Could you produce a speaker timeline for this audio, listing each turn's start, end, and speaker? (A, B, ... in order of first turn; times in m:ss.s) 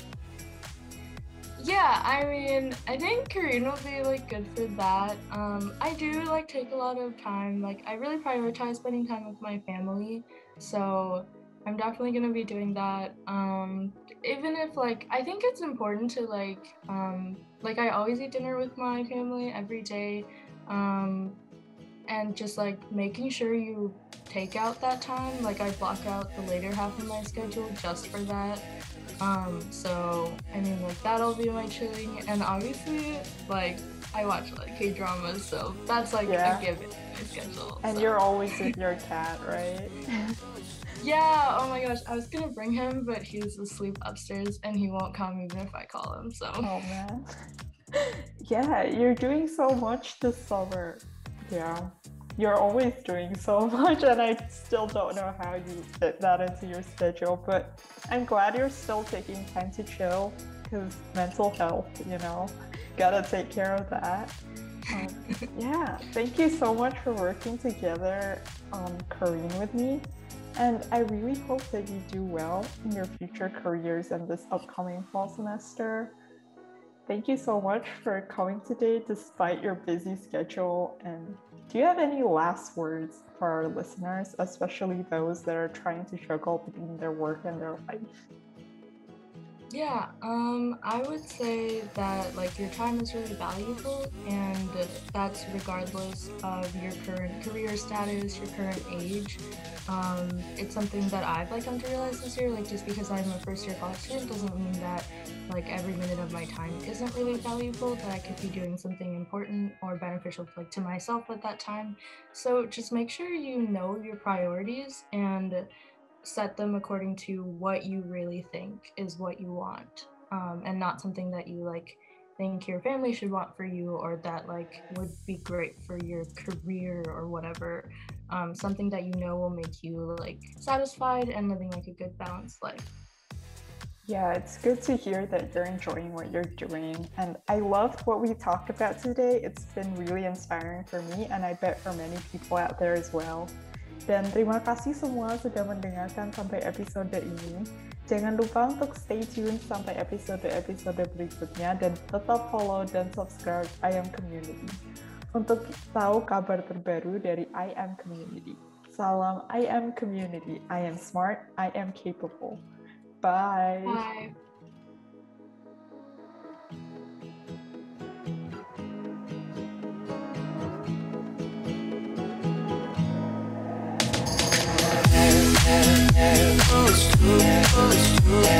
0:01.6-0:21.4 A
0:22.1-0:28.7 A
0:29.2-0:38.2 A
0:36.2-0:36.6 B
0:37.8-0:40.3 B
0:41.0-0:46.7 A
0:46.6-0:47.2 B
0:48.0-1:04.4 B
1:04.9-1:16.2 B
1:17.1-1:28.1 B
1:29.7-1:55.7 A
1:56.2-2:12.9 A
2:14.0-2:34.8 B
2:35.3-2:42.6 B
2:43.2-2:44.0 B
2:43.8-2:44.3 A